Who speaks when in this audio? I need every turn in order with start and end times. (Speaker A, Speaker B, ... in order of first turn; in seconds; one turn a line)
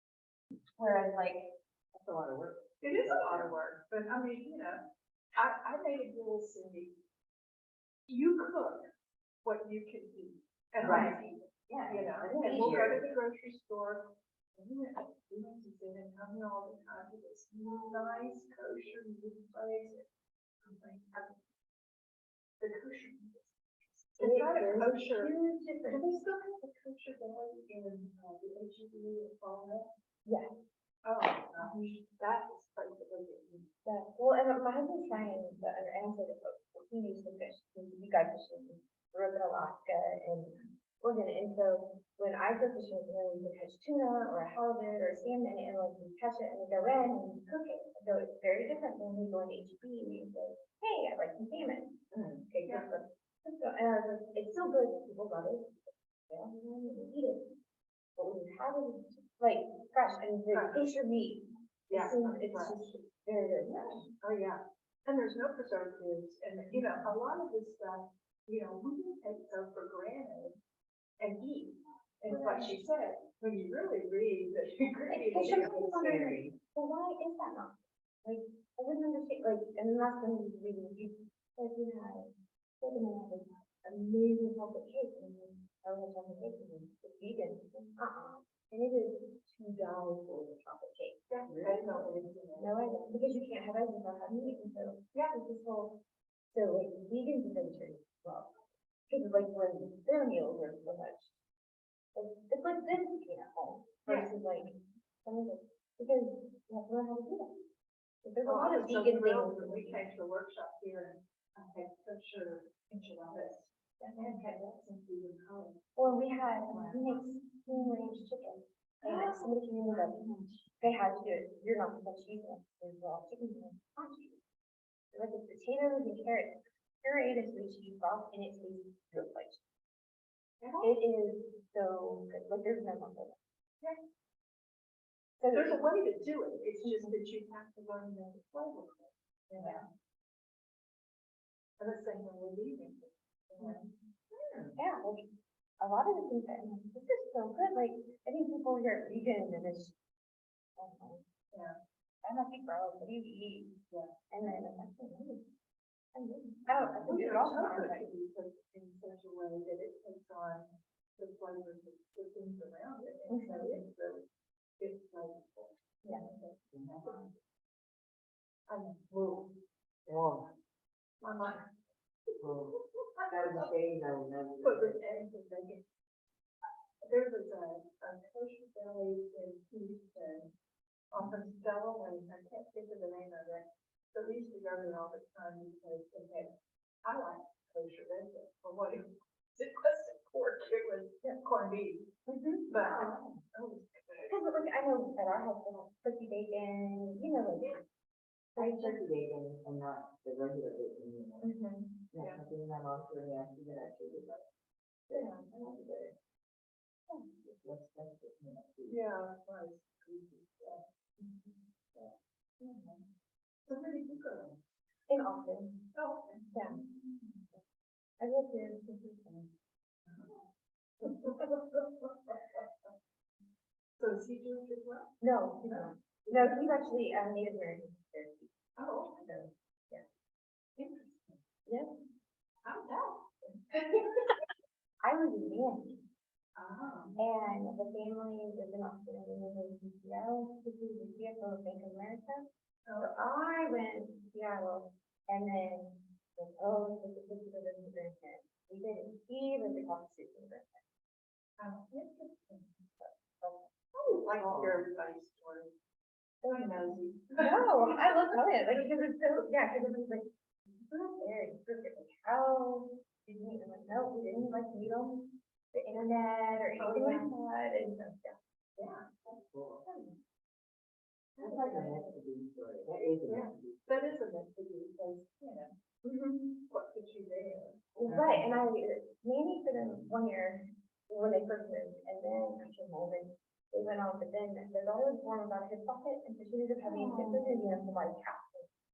Speaker A: 0.8-1.5
Speaker B: 1.9-3.6
Speaker C: 2.8-7.0
Speaker C: 8.1-8.9
Speaker C: 9.4-20.1
Speaker B: 10.8-11.2
Speaker A: 10.8-11.2
Speaker B: 11.7-13.0
Speaker A: 12.3-12.9
Speaker C: 20.6-21.4
Speaker C: 22.6-25.3
Speaker A: 24.2-26.1
Speaker C: 25.9-29.9
Speaker A: 30.2-30.6
Speaker C: 31.0-33.7
Speaker A: 31.6-32.0
Speaker A: 33.8-57.5
Speaker B: 52.1-52.4
Speaker C: 52.6-52.9
Speaker A: 58.1-64.1
Speaker C: 60.5-60.9
Speaker C: 61.9-62.9
Speaker C: 63.7-70.6
Speaker C: 71.2-76.2
Speaker B: 72.3-72.7
Speaker A: 75.1-101.3
Speaker B: 75.5-76.6
Speaker C: 91.3-92.8
Speaker B: 91.5-91.8
Speaker A: 102.1-107.7
Speaker C: 104.0-104.4
Speaker A: 108.2-110.1
Speaker C: 108.4-115.8
Speaker A: 114.0-114.6
Speaker A: 116.0-120.2
Speaker C: 116.7-117.4
Speaker C: 119.0-120.7
Speaker A: 120.8-124.4
Speaker A: 125.1-129.6
Speaker C: 130.6-131.0
Speaker A: 130.8-133.4
Speaker A: 135.4-135.8
Speaker C: 135.5-139.8
Speaker A: 136.8-137.1
Speaker A: 139.5-139.8
Speaker C: 141.8-143.8
Speaker A: 143.6-143.9
Speaker B: 144.3-144.7
Speaker A: 144.8-149.9
Speaker A: 150.8-151.2
Speaker A: 152.2-153.8
Speaker A: 154.3-155.5
Speaker A: 156.1-158.1
Speaker B: 156.7-157.3
Speaker C: 157.1-164.3
Speaker A: 163.3-163.8
Speaker C: 164.8-167.3
Speaker B: 166.7-167.3
Speaker C: 168.7-169.6
Speaker B: 170.1-170.5
Speaker C: 171.2-171.7
Speaker B: 172.4-172.8
Speaker C: 173.0-173.7
Speaker B: 173.3-175.0
Speaker C: 174.6-175.8
Speaker C: 177.0-180.5
Speaker C: 181.1-192.1
Speaker A: 192.3-193.3
Speaker C: 192.7-194.4
Speaker A: 194.3-197.8
Speaker A: 198.6-199.0
Speaker B: 198.6-201.5
Speaker A: 201.4-202.0
Speaker B: 202.1-204.4
Speaker C: 202.2-202.4
Speaker B: 205.1-206.1
Speaker C: 205.1-206.1
Speaker C: 207.1-207.6
Speaker B: 207.6-209.0
Speaker C: 208.9-213.1
Speaker C: 213.7-214.6
Speaker A: 215.1-215.9
Speaker C: 215.9-217.4
Speaker A: 216.5-216.8
Speaker A: 218.2-219.5
Speaker C: 220.1-220.4
Speaker C: 221.0-222.7
Speaker C: 224.0-225.1
Speaker A: 225.2-228.5
Speaker C: 225.7-226.7
Speaker C: 228.8-230.0
Speaker C: 230.8-231.4
Speaker C: 232.6-234.2
Speaker A: 235.0-236.0
Speaker C: 236.6-237.2
Speaker A: 237.2-250.8
Speaker C: 242.8-243.1
Speaker C: 251.6-253.0
Speaker A: 253.0-253.7
Speaker C: 253.9-255.7
Speaker B: 254.3-254.8
Speaker A: 256.4-260.3
Speaker C: 256.5-258.2
Speaker A: 260.9-268.4
Speaker C: 266.8-267.3
Speaker C: 268.8-269.3
Speaker B: 269.4-269.8
Speaker A: 269.9-270.2
Speaker C: 271.4-272.1
Speaker B: 271.4-273.9
Speaker C: 273.3-275.8
Speaker A: 276.0-276.6
Speaker C: 276.7-278.4
Speaker A: 278.0-288.7
Speaker B: 278.0-278.6